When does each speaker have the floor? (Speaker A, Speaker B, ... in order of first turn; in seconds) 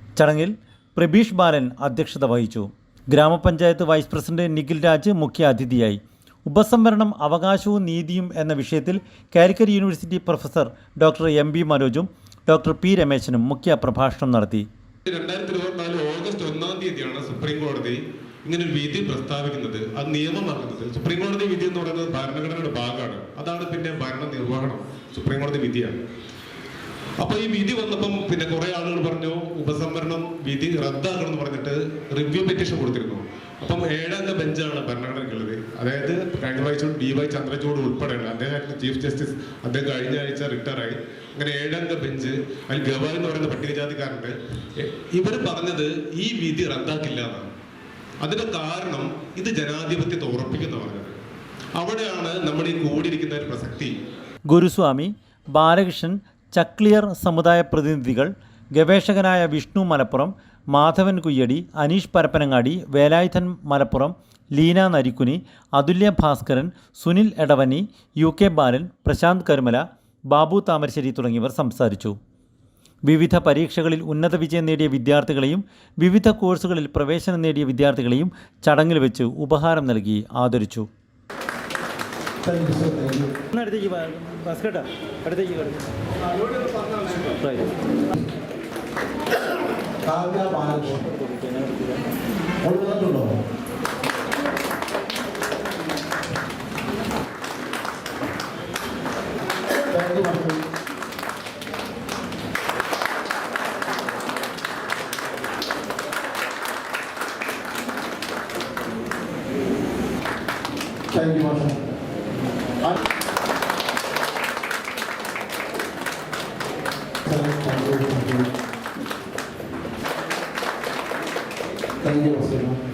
Speaker A: 0.1-14.7, 54.5-72.2, 73.0-80.9, 83.5-85.8, 87.4-87.7, 91.2-91.8
Speaker B: 15.1-26.0, 27.2-47.5, 48.2-51.1, 51.8-53.9
Speaker C: 82.5-83.2, 90.1-91.0, 92.7-93.3, 100.0-100.6, 111.2-111.7, 117.3-118.4, 122.2-122.7